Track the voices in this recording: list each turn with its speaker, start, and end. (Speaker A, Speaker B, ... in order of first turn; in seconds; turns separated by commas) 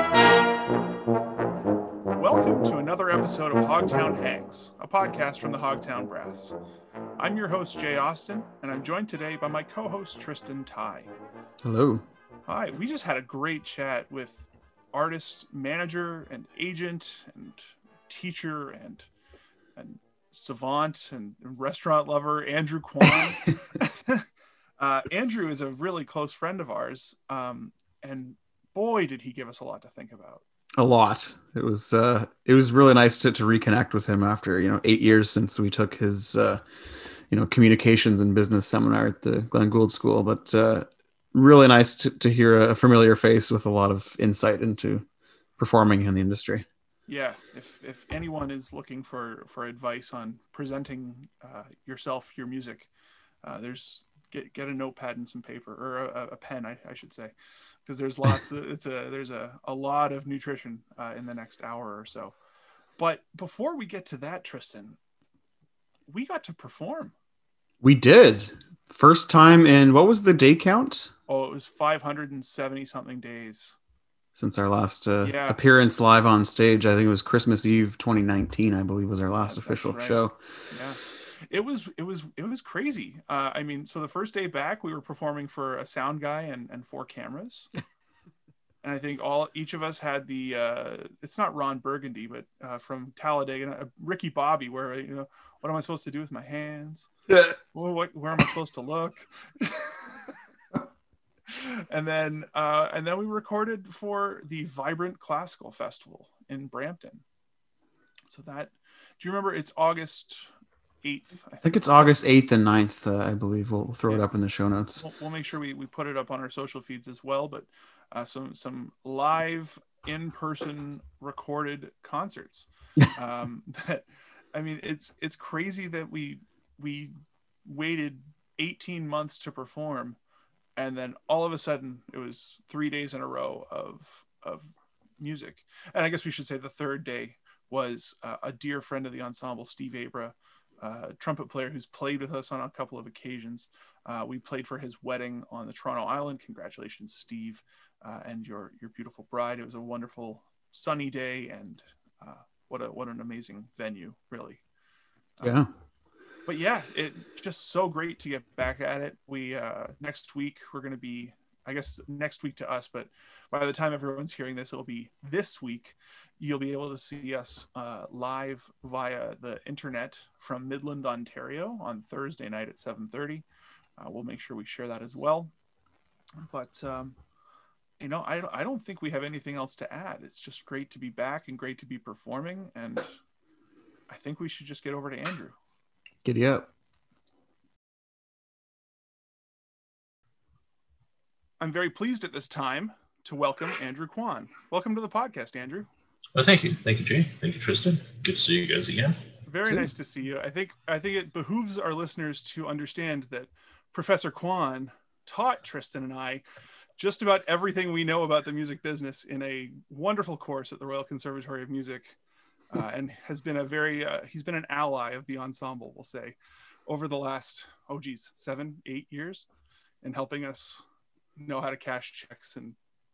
Speaker A: 2.1-6.5, Speaker A: 7.2-11.1, Speaker B: 11.6-12.0, Speaker A: 12.5-19.1, Speaker A: 19.8-24.3, Speaker A: 24.8-30.4, Speaker B: 30.8-36.6, Speaker B: 37.3-45.0, Speaker B: 45.6-46.6, Speaker A: 47.1-52.9, Speaker A: 53.4-57.3, Speaker A: 57.9-62.3, Speaker A: 63.0-65.0, Speaker A: 66.1-67.1, Speaker B: 67.8-71.1, Speaker A: 71.3-73.8, Speaker B: 74.3-80.4, Speaker A: 75.2-75.6, Speaker A: 79.4-80.2, Speaker A: 80.7-87.7, Speaker A: 88.8-97.1, Speaker B: 97.3-97.6, Speaker A: 97.7-100.3, Speaker A: 101.5-107.2, Speaker A: 108.3-110.5, Speaker A: 111.0-112.2, Speaker B: 111.6-115.0, Speaker A: 115.0-130.2, Speaker A: 130.8-154.6, Speaker B: 155.4-155.7, Speaker A: 156.4-173.4, Speaker A: 174.0-175.5, Speaker A: 176.4-177.2, Speaker A: 178.0-183.1, Speaker A: 184.1-185.6, Speaker B: 186.2-186.7, Speaker A: 191.6-195.9, Speaker C: 196.3-199.2, Speaker A: 199.5-206.4, Speaker A: 207.0-212.2, Speaker A: 212.7-219.5, Speaker A: 220.0-220.8, Speaker A: 221.4-222.8